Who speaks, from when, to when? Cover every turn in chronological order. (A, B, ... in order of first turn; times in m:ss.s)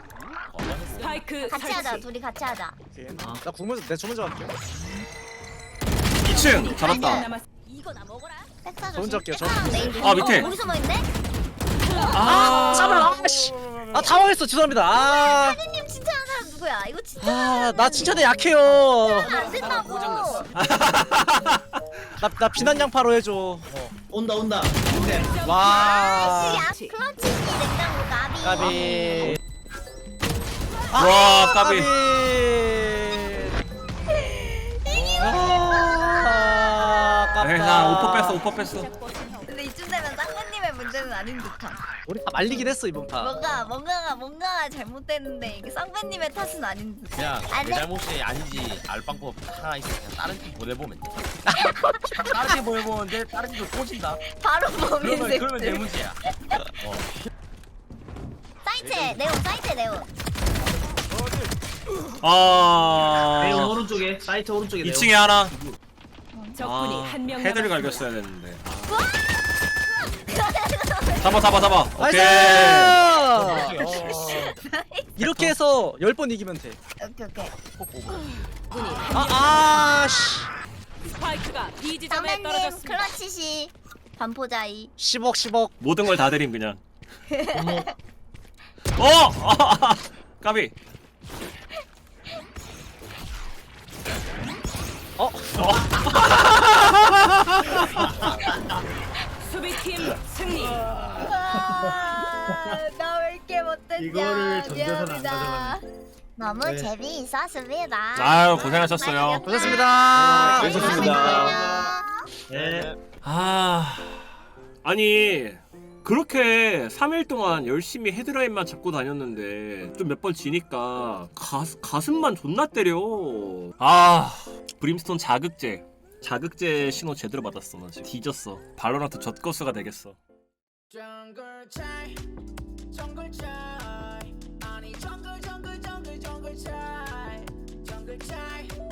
0:00.5-0:01.4 A
0:01.0-0:02.0 B
0:01.5-0:02.8 C
0:02.9-0:04.5 D
0:03.2-0:03.4 E
0:06.2-0:07.2 F
0:06.3-0:07.4 C
0:07.6-0:08.5 B
0:08.6-0:11.1 C
0:08.9-0:10.4 D
0:10.0-0:10.5 F
0:12.0-0:13.3 C
0:12.1-0:13.1 F
0:12.2-0:15.6 D
0:13.6-0:14.1 A
0:14.9-0:20.5 C
0:17.2-0:19.4 D
0:19.2-0:20.9 A
0:20.5-0:21.6 F
0:22.2-0:23.7 D
0:23.7-0:25.4 E
0:24.9-0:26.0 B
0:25.4-0:26.6 D
0:25.6-0:29.4 C
0:28.4-0:29.4 D
0:30.9-0:33.6 D
0:31.0-0:31.9 F
0:34.1-0:37.5 C
0:34.9-0:35.5 A
0:35.2-0:38.4 D
0:37.4-0:38.9 F
0:38.2-0:39.5 B
0:39.4-0:41.8 C
0:42.0-0:43.4 D
0:42.4-0:47.9 C
0:47.2-0:51.3 A
0:51.5-0:52.6 C
0:52.3-0:54.2 A
0:54.2-0:55.8 C
0:54.8-0:56.2 A
0:56.8-0:57.1 A
0:58.6-1:00.1 C
0:58.8-0:59.3 A
1:01.0-1:01.5 A
1:02.2-1:03.8 F
1:03.4-1:05.2 E
1:04.8-1:05.5 F
1:06.3-1:06.6 C
1:06.6-1:08.0 B
1:06.6-1:09.1 F
1:08.8-1:11.8 C
1:11.2-1:13.0 F
1:12.0-1:14.0 D
1:12.6-1:12.9 C
1:13.1-1:14.6 A
1:13.5-1:15.1 C
1:15.2-1:16.8 D
1:15.2-1:15.6 F
1:17.0-1:17.5 C
1:17.8-1:18.6 A
1:18.7-1:19.8 B
1:19.1-1:20.5 D
1:21.1-1:23.1 B
1:22.1-1:24.9 C
1:25.0-1:25.7 D
1:25.8-1:26.8 F
1:27.4-1:27.6 C
1:27.5-1:27.9 E
1:29.0-1:30.7 F
1:35.2-1:35.5 D
1:35.6-1:36.3 E
1:36.2-1:37.8 F
1:37.8-1:38.5 E
1:39.4-1:40.8 B
1:41.1-1:45.8 C
1:44.0-1:45.8 E
1:46.4-1:52.3 C
1:46.6-1:46.9 E
1:48.1-1:49.7 F
1:49.4-1:51.6 D
1:50.1-1:51.9 A
1:50.6-1:51.5 E
1:52.5-1:52.9 E
1:52.5-1:53.0 A
1:53.2-2:10.2 F
2:10.9-2:12.2 G
2:12.9-2:18.7 G